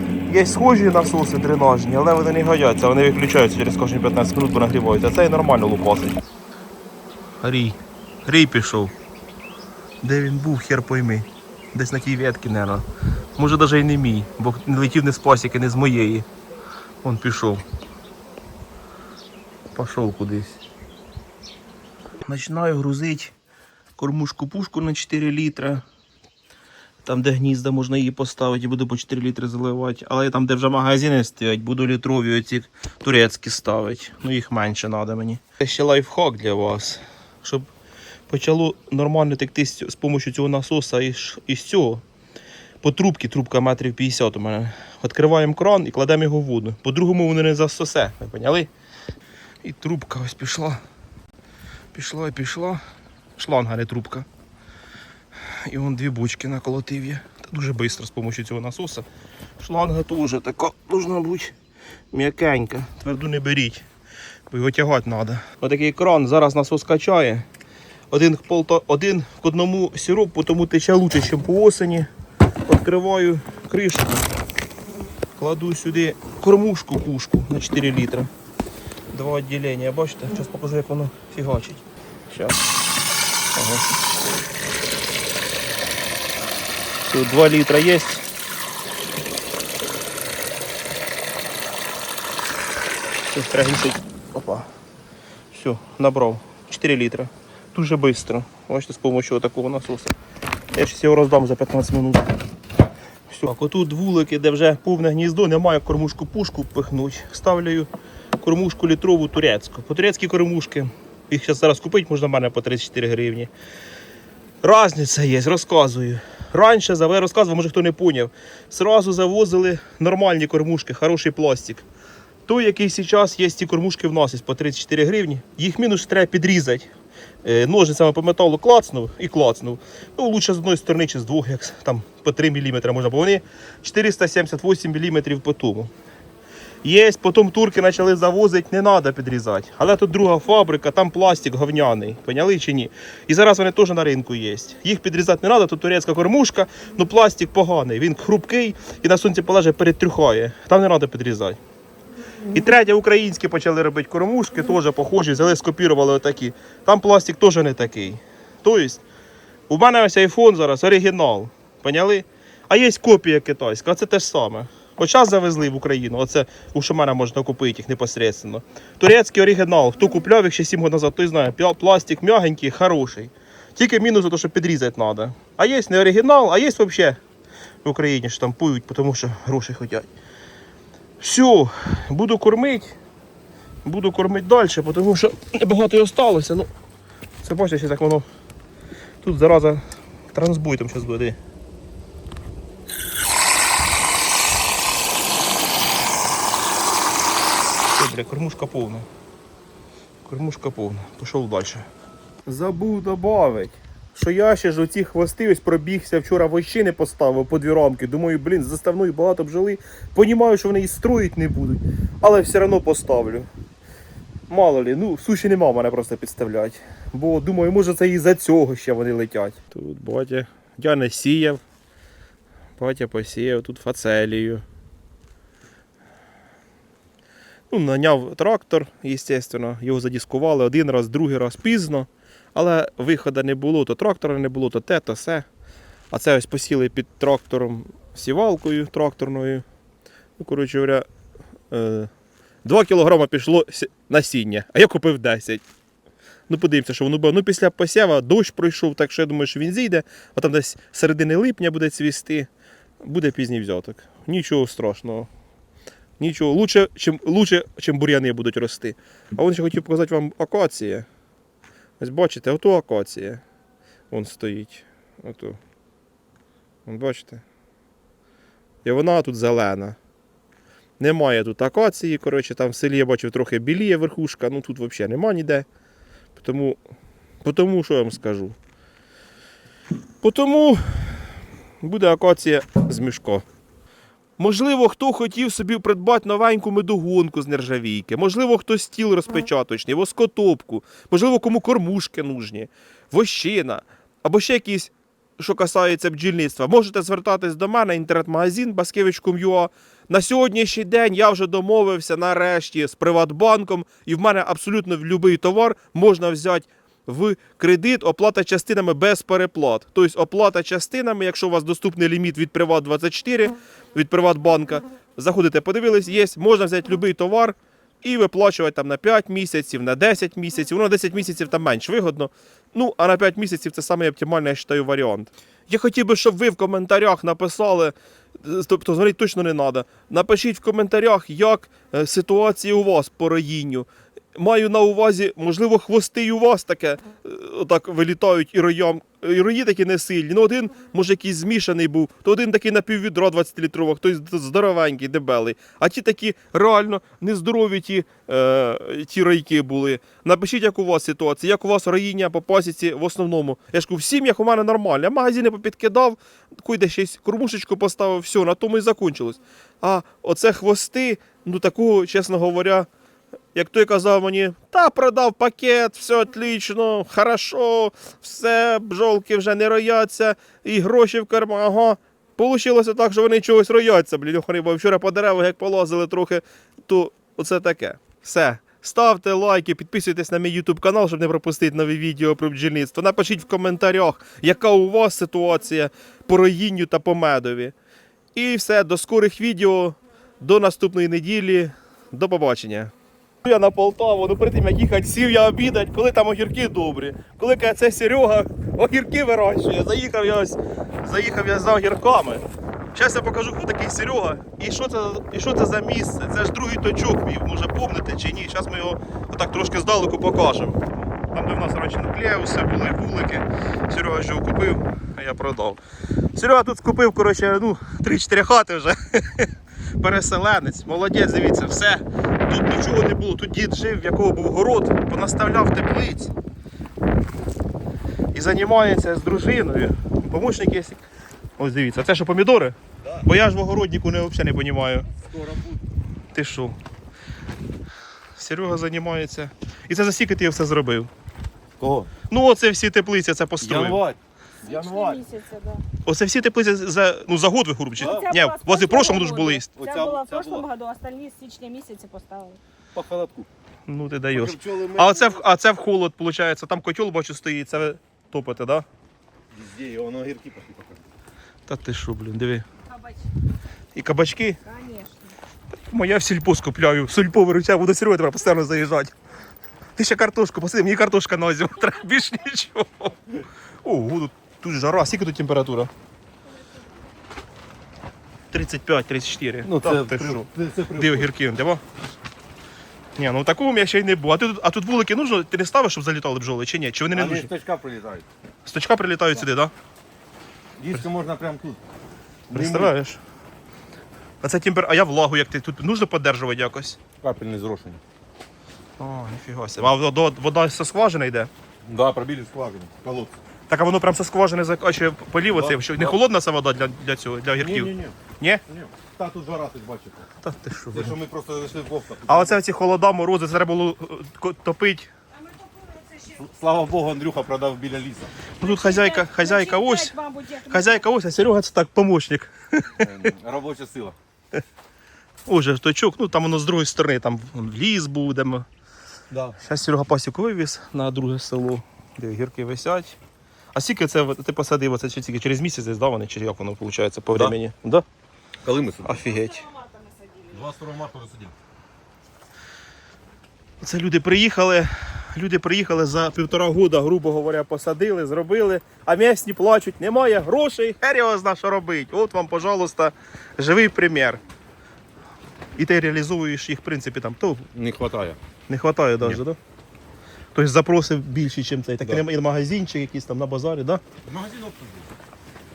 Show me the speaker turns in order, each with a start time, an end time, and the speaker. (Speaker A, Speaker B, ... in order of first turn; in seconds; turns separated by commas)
Speaker A: 0.3-6.2, Speaker A: 7.4-8.9, Speaker A: 10.0-12.8, Speaker A: 13.4-16.3, Speaker A: 17.0-17.6, Speaker A: 19.7-20.6, Speaker A: 22.2-23.3, Speaker A: 24.0-25.8, Speaker A: 27.0-37.7, Speaker A: 38.3-42.0, Speaker A: 42.8-48.7, Speaker A: 49.6-50.8, Speaker A: 51.9-52.8, Speaker A: 53.4-54.3, Speaker A: 55.7-59.1, Speaker A: 59.6-61.5, Speaker A: 62.1-63.8, Speaker A: 64.5-67.5, Speaker A: 68.1-72.1, Speaker A: 72.7-74.2, Speaker A: 75.4-78.3, Speaker A: 79.1-82.6, Speaker A: 83.5-84.0, Speaker A: 87.0-88.2, Speaker A: 93.3-94.7, Speaker A: 95.5-100.1, Speaker A: 100.7-102.3, Speaker A: 103.3-107.9, Speaker A: 108.4-113.5, Speaker A: 114.6-121.8, Speaker A: 122.5-126.9, Speaker A: 127.4-135.9, Speaker A: 136.8-151.6, Speaker A: 152.5-159.0, Speaker A: 159.7-177.2, Speaker A: 177.8-180.1, Speaker A: 181.2-183.0, Speaker A: 183.8-186.7, Speaker A: 187.4-188.2, Speaker A: 189.2-189.8, Speaker A: 190.3-191.4, Speaker A: 197.9-199.1, Speaker A: 200.2-201.9, Speaker A: 202.5-213.5, Speaker A: 214.5-221.6, Speaker A: 222.8-224.6, Speaker A: 227.7-235.5, Speaker A: 236.1-239.7, Speaker A: 240.4-241.1, Speaker A: 241.7-242.1, Speaker A: 242.7-245.6, Speaker A: 246.5-252.5, Speaker A: 253.0-255.3, Speaker A: 256.2-261.1, Speaker A: 262.0-263.4, Speaker A: 264.1-265.6, Speaker A: 266.9-267.4, Speaker A: 268.8-270.0, Speaker A: 271.0-275.7, Speaker A: 276.4-276.8, Speaker A: 277.4-278.6, Speaker A: 280.2-281.3, Speaker A: 281.8-283.4, Speaker A: 284.4-362.9, Speaker A: 363.5-387.8, Speaker A: 388.4-392.9, Speaker A: 393.4-415.8, Speaker A: 416.4-419.5, Speaker A: 420.0-426.3, Speaker A: 428.3-431.0, Speaker A: 431.6-435.1, Speaker B: 435.2-435.8, Speaker A: 436.3-436.8, Speaker A: 438.4-441.1, Speaker B: 441.8-442.1, Speaker A: 442.3-444.0, Speaker B: 443.6-445.2, Speaker C: 444.6-445.8, Speaker A: 446.1-449.7, Speaker C: 448.0-452.6, Speaker B: 448.0-448.4, Speaker B: 449.8-450.7, Speaker B: 452.9-453.5, Speaker A: 453.9-458.9, Speaker B: 454.3-455.5, Speaker B: 459.5-461.1, Speaker A: 461.7-462.6, Speaker C: 462.9-463.2, Speaker A: 463.9-464.6, Speaker C: 464.6-465.4, Speaker A: 465.7-469.1, Speaker A: 470.0-473.2, Speaker A: 473.8-475.9, Speaker A: 478.5-481.8, Speaker B: 479.6-481.3, Speaker A: 483.2-487.5, Speaker B: 487.1-488.3, Speaker A: 488.7-489.7, Speaker B: 490.8-491.8, Speaker A: 492.5-493.2, Speaker B: 492.5-492.9, Speaker A: 494.4-497.0, Speaker B: 497.2-498.0, Speaker A: 499.0-501.5, Speaker B: 501.8-503.4, Speaker A: 503.7-508.6, Speaker B: 505.5-506.2, Speaker B: 507.6-510.3, Speaker A: 510.4-511.2, Speaker B: 510.9-512.6, Speaker A: 512.3-515.1, Speaker C: 515.4-516.4, Speaker B: 516.3-518.3, Speaker A: 518.6-520.2, Speaker C: 518.6-521.1, Speaker A: 520.7-523.1, Speaker B: 523.0-524.2, Speaker A: 525.5-528.7, Speaker B: 529.3-529.6, Speaker A: 529.6-533.2, Speaker A: 533.7-538.0, Speaker B: 538.6-539.3, Speaker A: 539.0-539.7, Speaker C: 539.2-540.7, Speaker B: 540.5-541.5, Speaker A: 543.8-554.4, Speaker A: 555.8-557.7, Speaker B: 557.7-558.4, Speaker A: 558.7-559.6, Speaker A: 560.5-564.0, Speaker B: 564.2-565.1